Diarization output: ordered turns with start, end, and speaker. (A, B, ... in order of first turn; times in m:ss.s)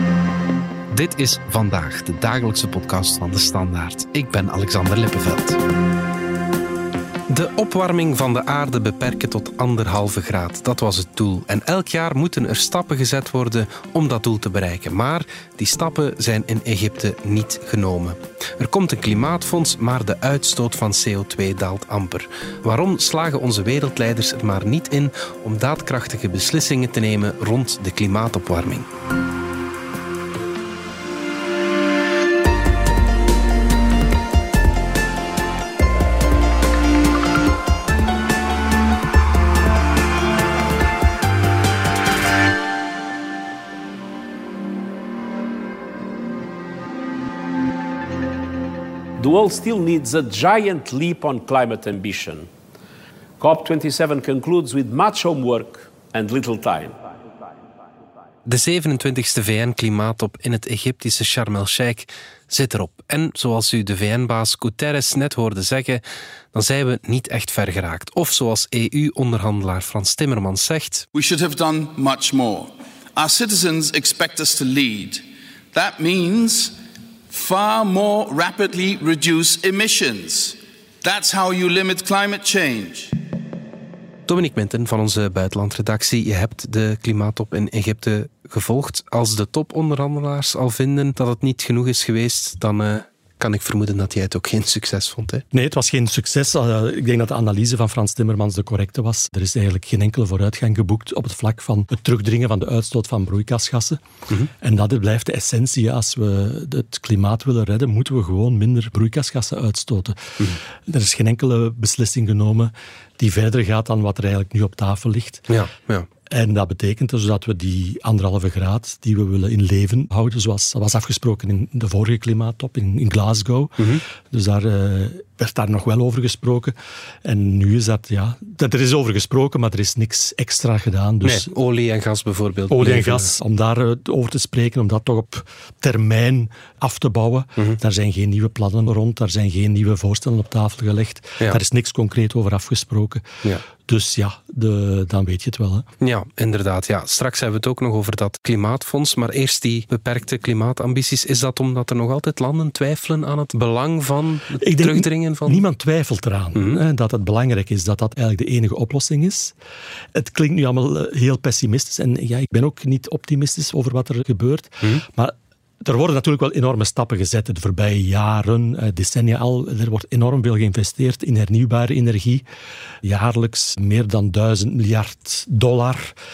0:00.9-0:05.6 A
0:07.3-0:28.9 A
0:49.2-0:52.5 B
0:53.4-0:57.0 B
0:58.4-1:06.0 A
1:06.5-1:11.0 A
1:11.1-1:16.8 C
1:17.3-1:23.2 C
1:24.3-1:35.4 A
1:35.5-1:44.0 D
1:44.5-1:55.4 D
1:55.5-1:56.1 A
1:56.3-2:11.5 D
2:11.2-2:13.3 A
2:12.7-2:23.3 D
2:23.8-2:25.9 D
2:26.0-2:35.6 A
2:34.6-2:39.5 D
2:36.5-2:36.8 A
2:40.1-2:52.4 D
2:53.0-2:56.2 D